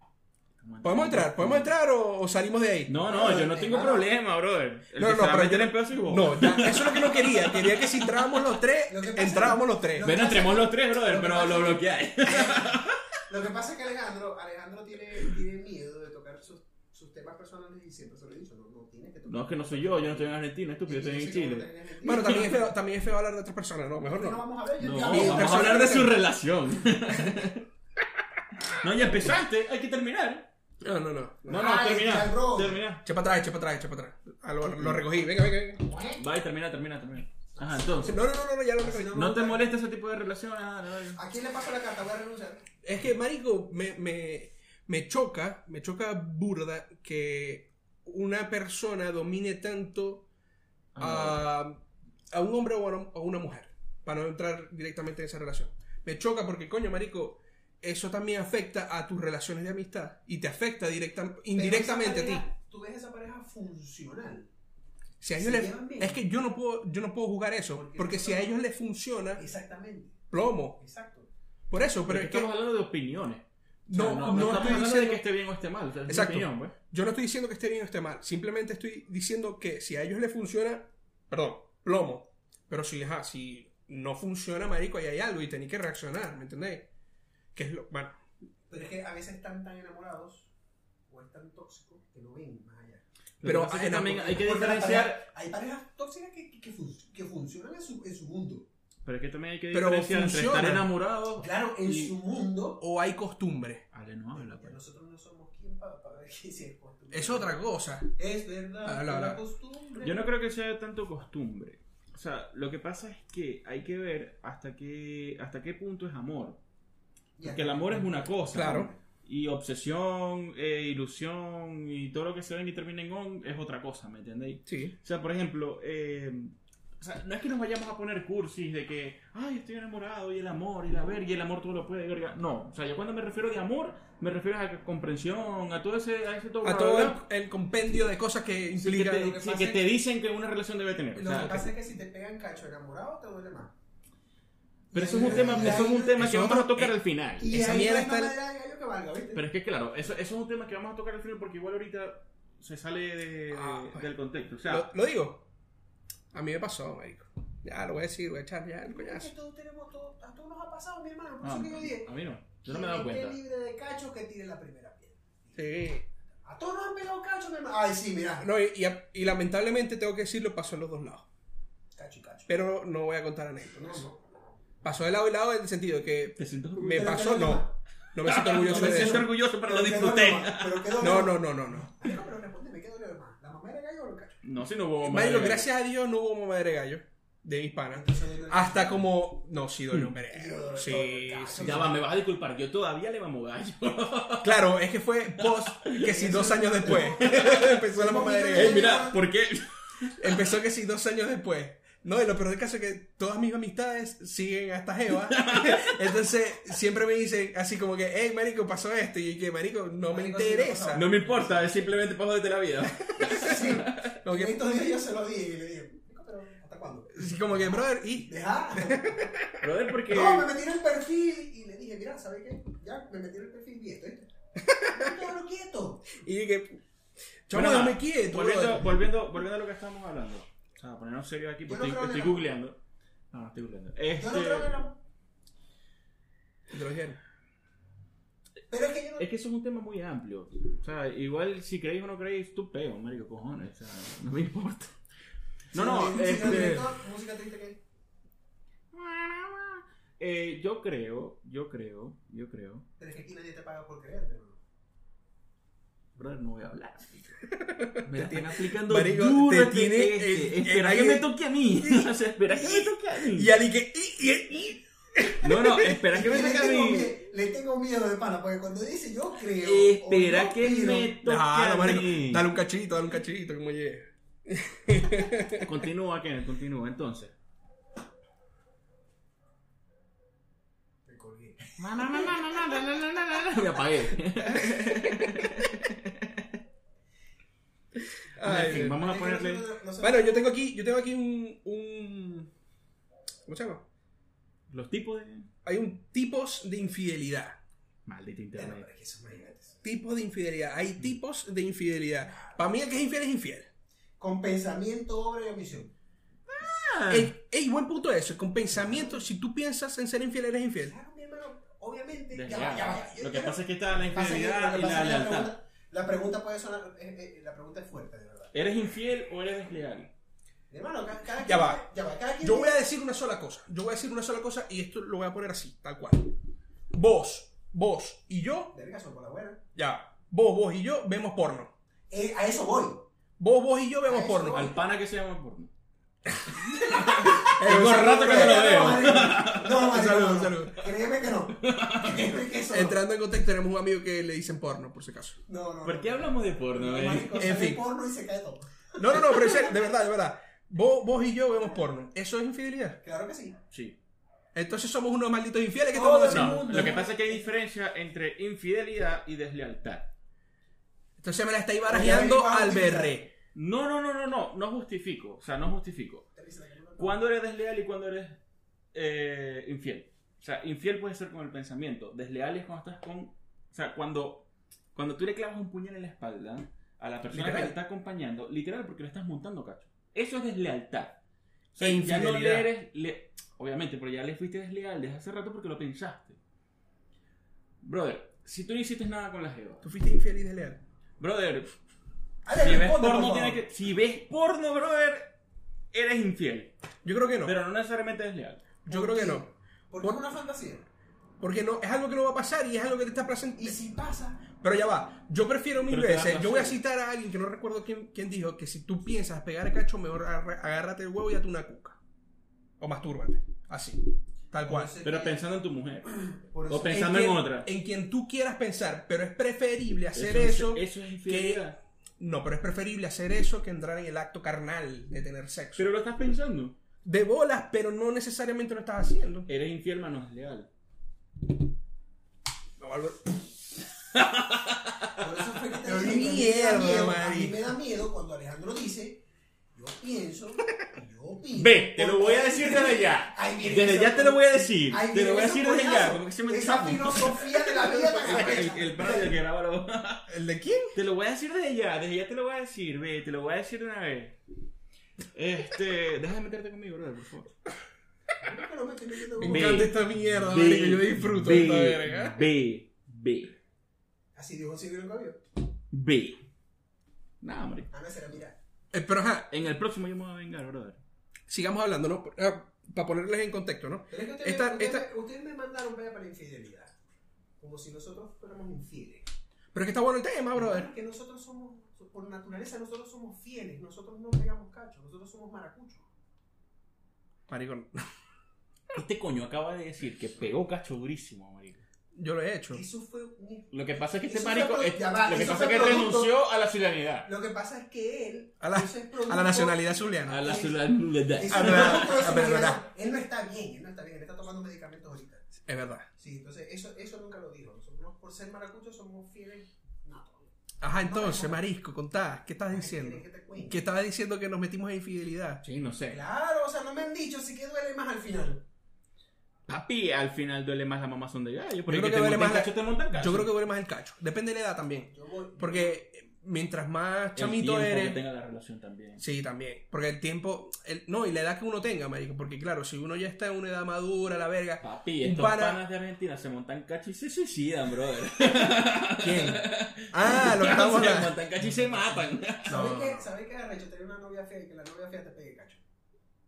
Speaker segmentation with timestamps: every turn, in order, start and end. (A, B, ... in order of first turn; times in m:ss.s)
0:00.6-0:01.7 A
0:00.8-0:03.0 B
0:02.9-0:08.4 A
0:03.1-0:04.1 C
0:05.0-0:10.1 B
0:08.9-0:12.7 C
0:10.0-0:13.0 A
0:13.3-0:20.3 C
0:19.3-0:22.5 A
0:20.8-0:22.6 C
0:22.0-0:24.4 B
0:24.0-0:26.1 C
0:24.8-0:27.7 A
0:25.1-0:26.2 B
0:28.6-0:30.5 A
0:30.8-0:31.7 B
0:31.5-0:32.8 C
0:31.5-0:33.0 A
0:33.0-0:35.8 B
0:34.6-0:35.0 A
0:35.8-0:36.2 C
0:36.2-0:38.2 A
0:37.6-0:39.6 C
0:38.0-0:39.5 B
0:39.2-0:41.2 A
0:41.2-0:42.6 C
0:42.8-0:50.3 B
0:51.0-0:51.5 A
0:51.0-1:02.4 B
1:01.6-1:04.5 C
1:05.2-1:09.4 B
1:05.4-1:06.2 C
1:07.7-1:08.6 C
1:09.4-1:10.2 C
1:10.3-1:10.8 B
1:10.8-1:11.3 C
1:11.7-1:12.5 B
1:12.1-1:16.7 A
1:13.9-1:15.2 B
1:14.4-1:14.8 C
1:16.1-1:26.9 B
1:27.6-1:28.2 B
1:28.7-1:30.5 C
1:31.1-1:33.0 C
1:33.4-1:35.2 A
1:33.4-1:34.2 B
1:34.1-1:38.7 C
1:39.0-1:42.1 A
1:39.7-1:40.9 B
1:41.4-1:42.8 C
1:42.8-1:43.8 B
1:43.9-1:44.8 A
1:44.4-1:47.6 C
1:47.1-1:48.1 B
1:48.2-1:50.2 C
1:48.8-1:49.4 B
1:50.0-1:56.6 A
1:57.4-1:59.0 C
1:57.4-2:17.2 A
1:58.5-1:58.9 B
2:04.7-2:05.0 B
2:16.6-2:19.4 B
2:18.8-2:21.6 A
2:19.1-2:19.9 C
2:21.2-2:23.7 C
2:21.3-2:21.7 B
2:24.9-2:26.2 C
2:24.9-2:27.5 A
2:25.0-2:27.0 B
2:27.4-2:29.4 C
2:27.5-2:28.4 B
2:29.3-2:34.9 A
2:33.5-2:34.1 B
2:34.7-2:35.5 B
2:36.3-2:39.3 B
2:38.9-2:42.1 C
2:41.4-2:43.4 A
2:42.7-2:45.7 C
2:45.6-2:46.0 B
2:46.4-2:48.5 C
2:48.4-2:51.3 B
2:52.0-2:52.5 C
2:52.5-2:54.0 B
2:53.7-2:54.3 C
2:54.8-2:59.3 B
2:56.4-2:57.2 A
2:56.9-2:57.7 C
2:58.2-3:01.0 A
2:58.6-3:04.4 C
3:01.0-3:01.9 B
3:04.4-3:05.7 A
3:05.0-3:11.9 B
3:07.9-3:09.0 C
3:10.3-3:12.0 C
3:11.6-3:14.6 A
3:14.4-3:18.9 B
3:15.4-3:17.8 A
3:16.1-3:19.2 C
3:18.5-3:20.4 A
3:20.2-3:31.1 B
3:25.2-3:25.9 A
3:30.1-3:31.8 C
3:30.9-3:34.1 A
3:33.1-3:33.7 B
3:33.2-3:39.3 C
3:34.2-3:34.9 B
3:37.1-3:39.6 B
3:39.6-3:40.5 A
3:40.1-3:44.3 C
3:44.6-3:45.2 B
3:44.9-3:46.1 C
3:46.2-3:46.8 B
3:47.5-3:48.9 B
3:47.5-3:52.8 A
3:51.7-3:52.5 C
3:53.3-3:54.8 A
3:54.2-3:55.0 C
3:56.7-3:57.2 B
3:58.7-3:59.3 C
3:59.2-4:05.0 A
4:05.7-4:07.0 A
4:05.7-4:07.8 C
4:08.9-4:12.9 A
4:13.0-4:14.6 C
4:16.2-4:23.5 A
4:17.6-4:21.3 B
4:21.8-4:26.0 B
4:25.4-4:27.2 A
4:26.1-4:31.2 C
4:29.6-4:32.5 A
4:31.2-4:35.8 B
4:35.6-4:37.3 A
4:41.1-4:42.2 C
4:41.8-4:46.5 A
4:44.5-4:45.6 B
4:48.3-4:49.0 B
4:48.4-4:49.7 A
4:48.5-4:50.5 C
4:50.0-4:52.5 B
4:53.5-4:53.8 B
4:54.7-4:55.5 A
4:55.6-4:57.6 B
4:58.1-4:58.9 A
4:58.6-4:59.8 C
4:59.8-5:03.7 B
5:04.2-5:05.9 C
5:06.5-5:07.3 A
5:07.1-5:10.9 B
5:08.8-5:09.2 C
5:10.9-5:18.6 C
5:12.3-5:15.5 A
5:18.5-5:20.1 A
5:20.7-5:22.8 C
5:21.4-5:21.8 B
5:22.4-5:26.3 B
5:26.9-5:28.7 B
5:28.7-5:29.6 C
5:29.8-5:31.7 B
5:32.1-5:33.1 C
5:33.4-5:34.7 B
5:34.1-5:34.8 C
5:34.5-5:35.7 A
5:36.4-5:39.2 B
5:36.7-5:39.9 A
5:37.0-5:43.0 C
5:39.8-5:40.8 B
5:41.6-5:42.4 A
5:42.7-5:45.4 B
5:45.5-5:49.8 C
5:45.8-5:47.5 A
5:47.3-5:47.8 B
5:49.0-5:53.0 B
5:53.0-5:53.6 C
5:53.7-5:54.0 A
5:54.6-5:57.0 B
5:55.9-5:57.5 C
5:56.3-6:00.1 A
6:01.2-6:03.3 B
6:01.8-6:03.2 C
6:03.5-6:06.3 A
6:06.4-6:07.2 C
6:07.0-6:08.4 A
6:08.9-6:21.2 A
6:17.3-6:17.7 B
6:21.7-6:26.4 A
6:21.8-6:22.7 B
6:27.8-6:29.9 A
6:29.8-6:30.8 B
6:31.2-6:31.7 A
6:32.4-6:33.6 C
6:32.6-6:35.4 A
6:35.9-6:36.7 A
6:37.0-6:37.6 B
6:37.4-6:38.7 A
6:38.9-6:39.5 B
6:38.9-6:40.9 C
6:41.4-6:43.8 B
6:43.6-6:44.5 C
6:44.6-6:52.0 B
6:45.9-6:46.8 A
6:52.8-6:54.9 B
6:54.6-6:55.5 C
6:55.0-6:56.1 A
6:56.3-6:57.2 C
6:56.7-6:57.7 A
6:56.9-7:01.6 B
7:00.2-7:01.8 A
7:02.2-7:05.9 B
7:05.8-7:06.8 A
7:07.0-7:09.5 B
7:09.5-7:10.7 A
7:12.8-7:13.5 B
7:14.1-7:15.2 A
7:15.2-7:19.2 C
7:15.8-7:17.6 B
7:19.8-7:29.3 C
7:21.6-7:30.3 A
7:30.3-7:31.0 B
7:30.9-7:34.4 A
7:35.3-7:37.6 A
7:38.4-7:39.9 C
7:39.4-7:42.5 B
7:39.4-7:43.6 A
7:44.4-7:45.4 C
7:45.9-7:46.4 A
7:47.4-7:47.9 A
7:47.9-7:48.6 C
7:48.9-7:49.5 B
7:49.5-7:51.0 A
7:51.5-7:55.1 B
7:54.1-7:56.9 C
7:57.6-7:59.3 C
7:59.7-8:00.9 B
8:00.5-8:06.0 C
8:07.5-8:08.0 B
8:08.9-8:11.8 A
8:12.2-8:12.8 B
8:12.7-8:16.3 C
8:13.7-8:17.3 A
8:17.2-8:20.8 C
8:18.6-8:20.6 B
8:20.3-8:22.4 A
8:21.4-8:25.6 C
8:21.5-8:22.8 B
8:25.7-8:26.1 B
8:26.2-8:31.6 C
8:30.8-8:35.6 B
8:32.7-8:33.8 C
8:35.6-8:36.2 A
8:36.1-8:38.6 C
8:39.7-8:43.5 A
8:41.9-8:48.2 B
8:45.1-8:46.0 C
8:47.4-8:49.2 A
8:49.2-8:55.8 B
8:54.8-9:02.9 A
8:59.2-9:03.2 B
9:02.7-9:05.8 C